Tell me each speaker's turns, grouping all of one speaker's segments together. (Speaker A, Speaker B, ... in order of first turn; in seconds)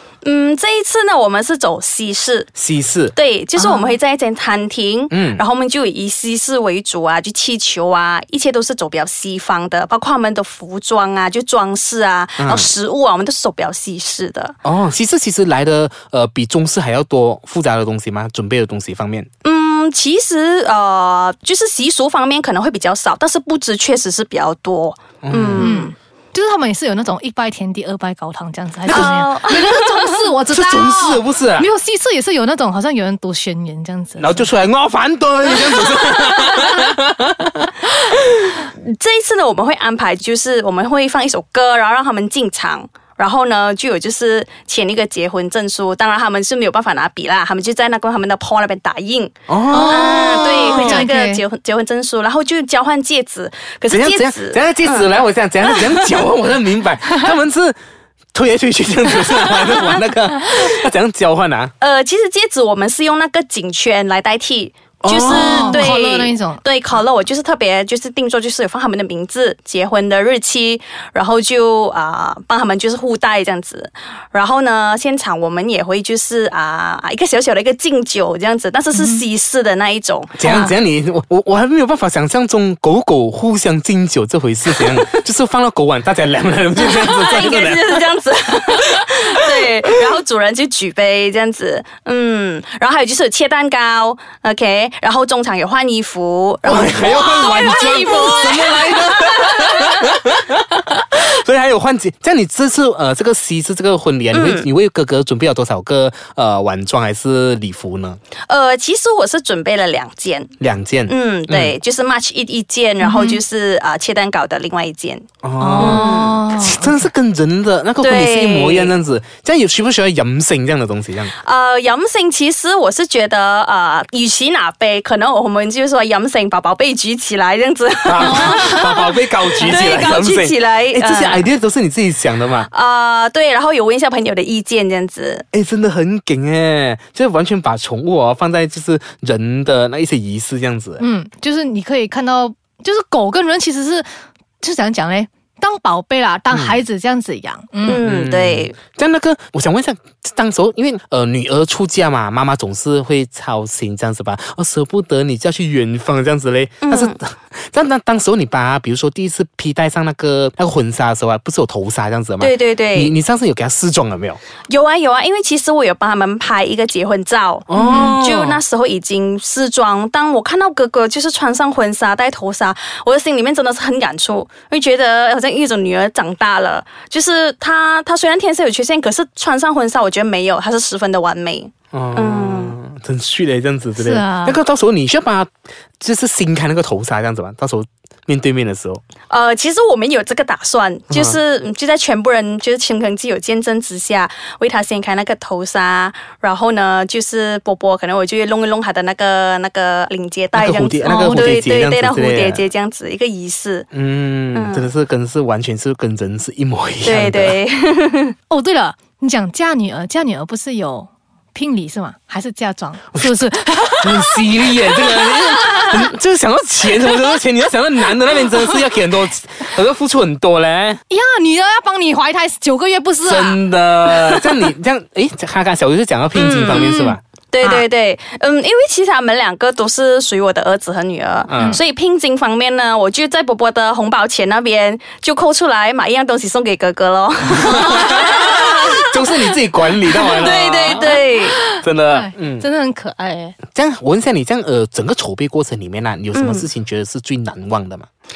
Speaker A: 0.2-2.5, 3.1-14.6, 19.4-25.9, 28.9-30.2, 38.7-56.2, 61.8-80.6, 86.8-99.8, 104.3-104.7, 108.5-110.5, 111.1-115.3, 115.8-116.4, 118.0-119.0, 121.4-131.5, 132.7-135.4, 147.8-148.8, 156.8-157.2, 162.4-163.2, 164.7-182.8, 189.3-203.9, 204.5-204.9, 207.0-208.4, 226.3-226.9, 227.5-238.8, 240.2-241.6, 246.3-246.7
Speaker B: 2.6-3.1, 5.1-5.4, 12.4-12.7, 14.6-19.3, 25.2-25.7, 28.9-29.2, 30.5-31.7, 34.2-38.0, 49.5-51.1, 53.9-57.8, 58.3-61.7, 65.0-65.9, 80.4-88.1, 89.0-89.7, 96.7-108.2, 110.6-111.8, 115.4-121.3, 128.1-132.7, 135.5-141.0, 146.5-146.8, 147.9-164.4, 167.7-168.6, 181.9-185.5, 186.0-189.0, 191.1-191.4, 200.6-202.6, 203.9-207.6, 213.9-221.0, 223.2-227.2, 231.5-231.8, 237.7-241.2, 241.7-242.7, 243.7-248.1
Speaker C: 3.6-3.9, 25.6-34.5, 49.7-51.4, 65.3-66.6, 78.9-79.2, 80.5-80.7, 97.1-98.8, 113.0-113.4, 115.6-117.1, 128.2-128.8, 141.0-144.1, 144.6-148.0, 167.7-168.1, 184.0-184.6, 201.0-201.5, 208.5-216.0, 221.1-224.7, 226.8-227.8, 237.7-239.2, 240.2-243.6